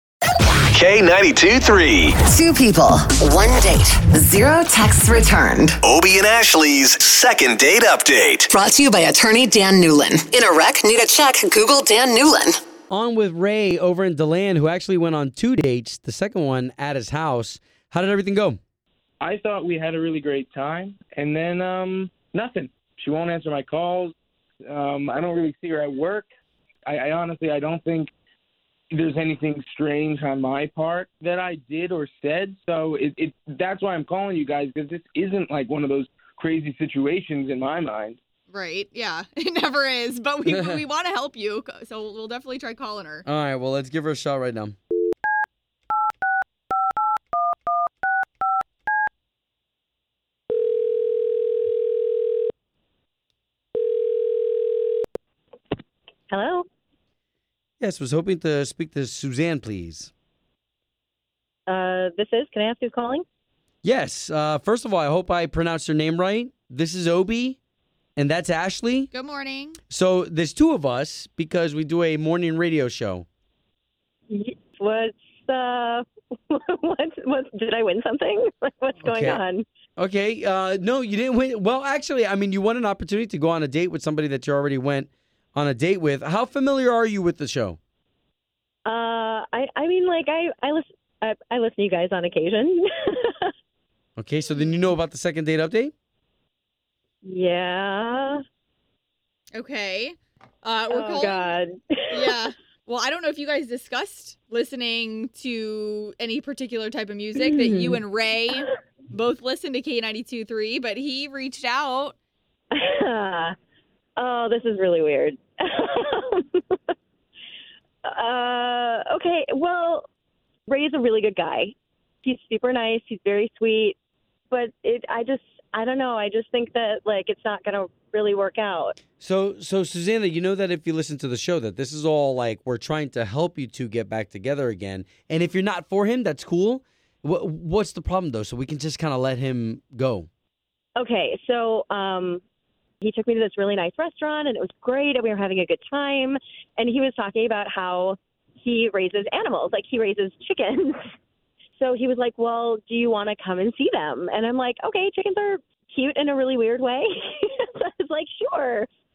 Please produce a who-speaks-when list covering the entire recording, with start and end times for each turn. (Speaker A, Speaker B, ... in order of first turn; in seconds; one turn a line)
Speaker A: 0.7-2.1
Speaker B: 2.2-5.8
Speaker A: 5.9-8.5
Speaker B: 8.5-12.6
Speaker C: 12.9-18.6
Speaker D: 19.2-24.1
Speaker D: 24.7-26.3
Speaker D: 26.9-28.1
Speaker D: 28.9-38.2
Speaker E: 38.5-43.2
Speaker C: 40.5-40.8
Speaker C: 43.2-44.8
Speaker F: 56.3-56.6
Speaker C: 57.8-60.1
Speaker F: 61.7-63.2
Speaker C: 63.8-67.6
Speaker C: 68.2-69.1
Speaker E: 69.1-69.8
Speaker C: 69.9-73.2
Speaker F: 74.3-79.7
Speaker C: 79.0-79.4
Speaker C: 80.0-87.8
Speaker F: 88.8-93.5
Speaker C: 94.2-95.9
Speaker E: 94.6-94.9
Speaker F: 97.2-98.4
Speaker E: 99.5-101.5
Speaker F: 100.9-102.3
Speaker E: 102.1-112.2
Speaker F: 107.4-108.0
Speaker F: 112.7-113.5
Speaker F: 114.2-116.7
Speaker F: 118.0-120.1
Speaker F: 120.7-124.0
Speaker F: 124.5-129.0
Speaker C: 129.2-140.3
Speaker F: 141.0-142.4
Speaker F: 143.0-151.0
Speaker F: 151.8-158.9